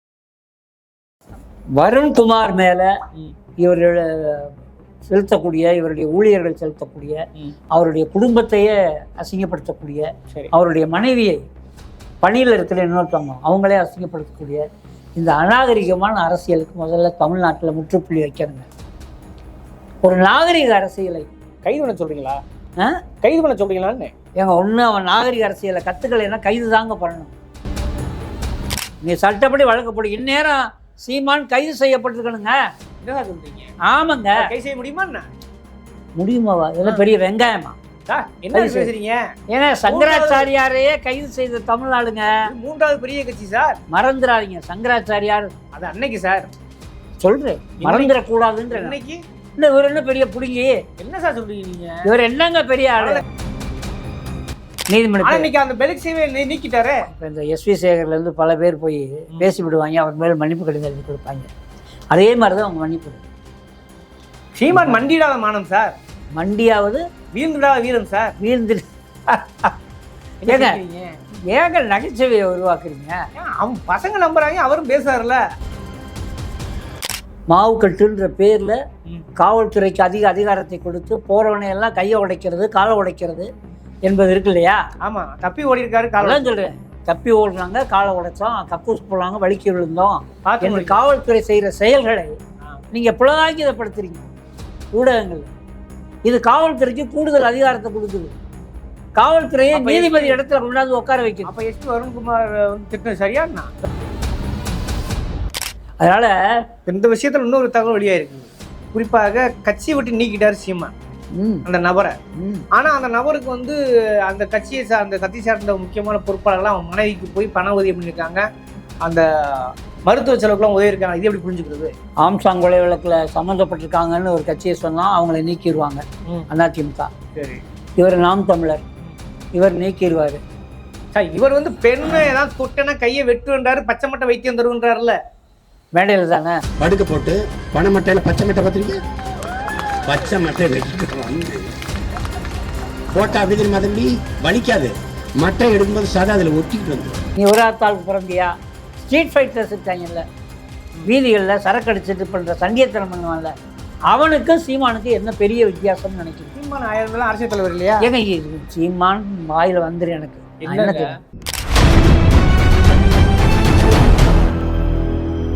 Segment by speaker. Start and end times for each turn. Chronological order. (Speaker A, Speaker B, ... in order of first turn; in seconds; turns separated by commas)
Speaker A: 1.8-2.9, Speaker A: 3.6-11.4, Speaker A: 12.2-14.7, Speaker A: 15.2-18.7, Speaker A: 20.0-21.3, Speaker B: 21.6-22.4, Speaker B: 23.2-24.1, Speaker A: 24.4-27.3, Speaker A: 29.0-32.6, Speaker B: 33.0-33.7, Speaker A: 33.8-34.5, Speaker B: 34.4-35.3, Speaker A: 36.2-37.8, Speaker B: 38.1-39.3, Speaker A: 38.5-38.9, Speaker A: 39.5-42.5, Speaker B: 39.9-40.5, Speaker B: 42.5-43.8, Speaker A: 43.9-45.5, Speaker B: 45.7-46.5, Speaker A: 47.2-49.0, Speaker B: 47.8-48.2, Speaker B: 48.7-49.2, Speaker A: 49.6-50.8, Speaker B: 51.0-52.1, Speaker A: 52.0-53.2, Speaker B: 53.0-53.2, Speaker A: 54.9-55.5, Speaker B: 55.2-57.1, Speaker A: 57.1-61.5, Speaker A: 62.1-63.2, Speaker B: 64.5-66.0, Speaker A: 66.3-67.0, Speaker B: 67.3-68.4, Speaker A: 68.4-69.8, Speaker B: 70.4-71.2, Speaker A: 70.5-70.8, Speaker A: 71.5-73.2, Speaker B: 73.4-75.4, Speaker A: 77.5-78.8, Speaker A: 79.4-83.5, Speaker A: 84.1-84.8, Speaker B: 85.0-86.6, Speaker A: 86.2-92.4, Speaker B: 90.5-91.0, Speaker A: 92.9-94.3, Speaker A: 95.0-95.5, Speaker A: 96.2-98.3, Speaker A: 99.2-101.5, Speaker B: 99.7-100.4, Speaker B: 101.4-103.7, Speaker A: 106.0-106.3, Speaker B: 106.9-110.9, Speaker A: 111.3-111.7, Speaker B: 111.7-112.2, Speaker A: 112.3-112.7, Speaker B: 112.7-118.5, Speaker B: 119.0-121.9, Speaker A: 122.2-127.1, Speaker B: 127.3-127.6, Speaker A: 128.0-128.8, Speaker A: 129.6-130.4, Speaker B: 131.1-135.2, Speaker A: 135.9-136.6, Speaker C: 136.8-139.0, Speaker C: 140.1-141.8, Speaker C: 143.1-147.2, Speaker A: 147.4-150.3, Speaker A: 151.1-153.5, Speaker A: 154.1-156.5, Speaker B: 156.6-158.1, Speaker A: 158.0-161.2, Speaker B: 160.6-161.2